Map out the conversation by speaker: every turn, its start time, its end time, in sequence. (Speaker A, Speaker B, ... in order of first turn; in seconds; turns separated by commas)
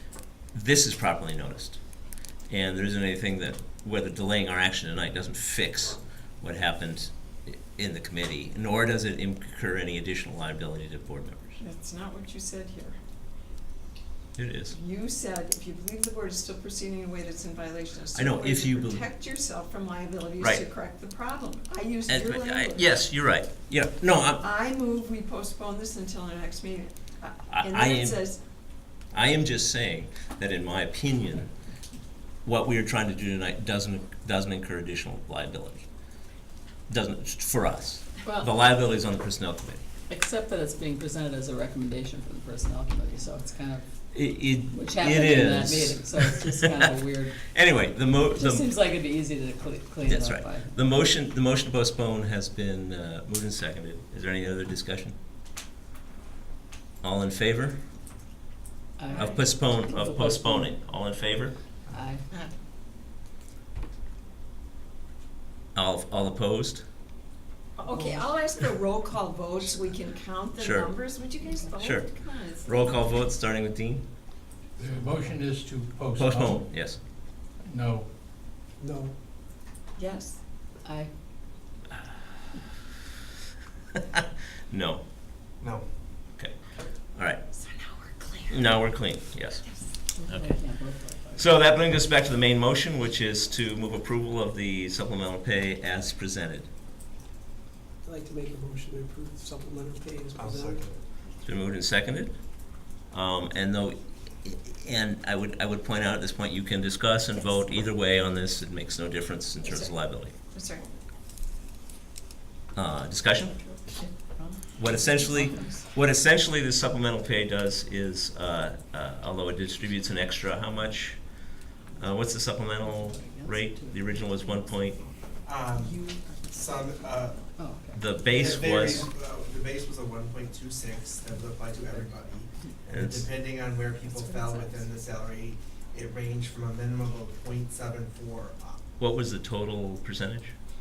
Speaker A: 0.5-1.8, Speaker A: 2.5-11.6, Speaker B: 11.6-13.0, Speaker A: 14.4-14.8, Speaker B: 14.7-22.9, Speaker A: 18.1-19.0, Speaker A: 22.1-24.4, Speaker B: 24.4-28.4, Speaker A: 27.5-28.2, Speaker A: 29.1-31.5, Speaker A: 32.5-35.9, Speaker A: 36.9-39.8, Speaker C: 38.2-38.5, Speaker C: 40.1-43.8, Speaker A: 44.1-46.9, Speaker C: 44.7-47.5, Speaker A: 47.5-48.8, Speaker C: 48.3-50.7, Speaker A: 50.0-55.1, Speaker A: 57.0-57.8, Speaker C: 59.0-60.8, Speaker A: 59.1-61.6, Speaker C: 61.9-62.2, Speaker A: 65.8-66.8, Speaker B: 67.8-73.2, Speaker D: 67.9-68.2, Speaker A: 70.6-71.0, Speaker A: 71.8-74.0, Speaker E: 74.8-76.7, Speaker A: 76.2-77.0, Speaker E: 77.6-78.1, Speaker D: 78.8-79.1, Speaker B: 80.0-80.4, Speaker C: 80.8-81.1, Speaker A: 84.7-85.0, Speaker F: 85.6-85.9, Speaker A: 87.1-87.4, Speaker B: 87.5-88.6, Speaker A: 88.5-90.6, Speaker C: 90.2-91.5, Speaker A: 91.3-96.7, Speaker D: 98.0-100.9, Speaker F: 100.3-101.0, Speaker A: 101.4-110.3, Speaker B: 109.6-109.9, Speaker B: 110.5-110.8, Speaker A: 112.7-113.5, Speaker B: 113.4-115.9, Speaker A: 114.8-121.5, Speaker A: 122.0-125.0, Speaker C: 122.8-124.3, Speaker F: 125.4-127.5, Speaker B: 125.7-127.5, Speaker C: 127.6-128.1, Speaker A: 127.9-129.1, Speaker F: 128.3-138.8, Speaker A: 132.9-133.4, Speaker C: 134.2-134.8, Speaker A: 139.0-140.6